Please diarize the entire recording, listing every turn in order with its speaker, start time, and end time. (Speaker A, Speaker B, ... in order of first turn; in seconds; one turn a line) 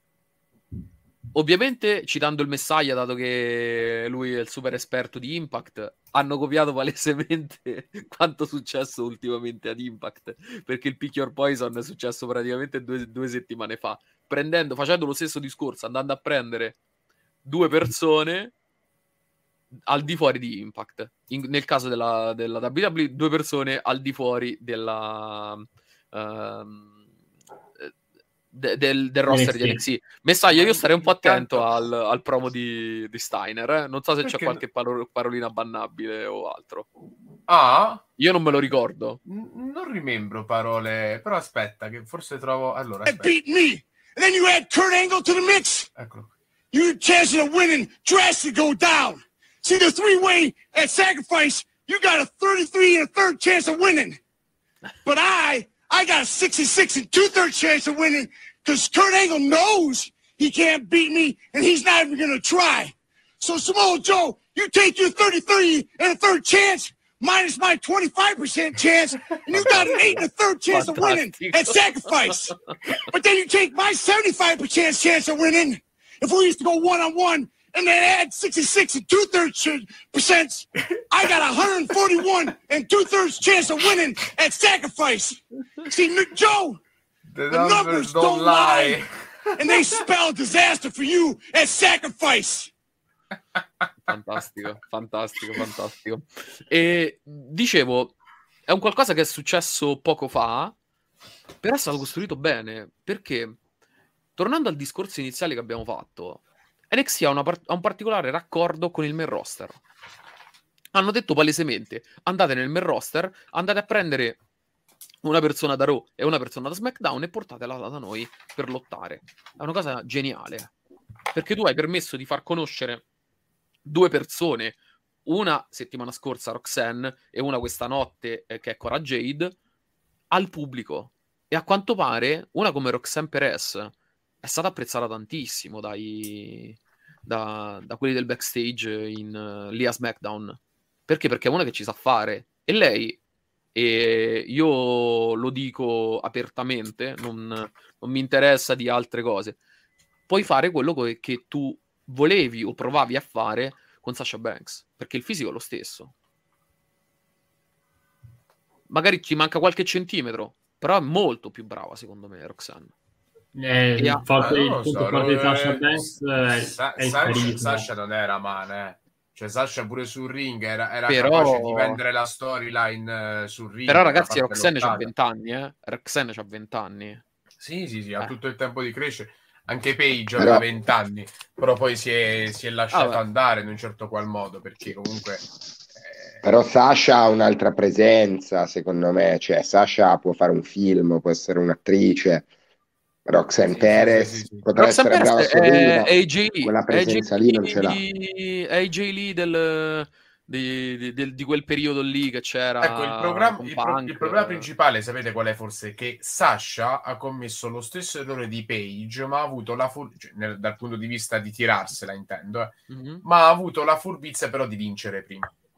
Speaker A: 1.3-16.8
Speaker A: 17.4-18.5
Speaker A: 19.9-26.9
Speaker A: 28.5-36.9
Speaker B: 29.3-29.8
Speaker C: 30.5-31.7
Speaker C: 34.2-34.6
Speaker C: 37.5-38.0
Speaker A: 38.2-39.2
Speaker C: 39.2-43.3
Speaker D: 43.0-45.9
Speaker C: 46.0-46.3
Speaker D: 46.7-54.2
Speaker D: 55.0-86.8
Speaker A: 69.5-72.5
Speaker C: 87.3-90.0
Speaker D: 87.5-89.0
Speaker D: 89.6-92.7
Speaker A: 94.0-100.8
Speaker A: 101.6-103.6
Speaker A: 104.4-109.8
Speaker A: 110.9-114.4
Speaker A: 115.2-120.7
Speaker A: 121.3-123.0
Speaker A: 123.8-129.6
Speaker A: 130.3-143.2
Speaker A: 143.8-149.6
Speaker A: 150.3-156.1
Speaker A: 158.9-162.9
Speaker B: 163.5-167.9
Speaker A: 164.0-164.3
Speaker C: 164.4-175.1
Speaker A: 171.1-172.0
Speaker A: 173.9-177.2
Speaker C: 177.6-185.4
Speaker E: 180.4-180.6
Speaker A: 182.9-183.2
Speaker C: 186.0-186.4
Speaker E: 186.4-192.5
Speaker E: 193.3-198.0
Speaker C: 193.6-194.7
Speaker A: 194.8-204.7
Speaker C: 202.8-215.5
Speaker A: 212.9-213.2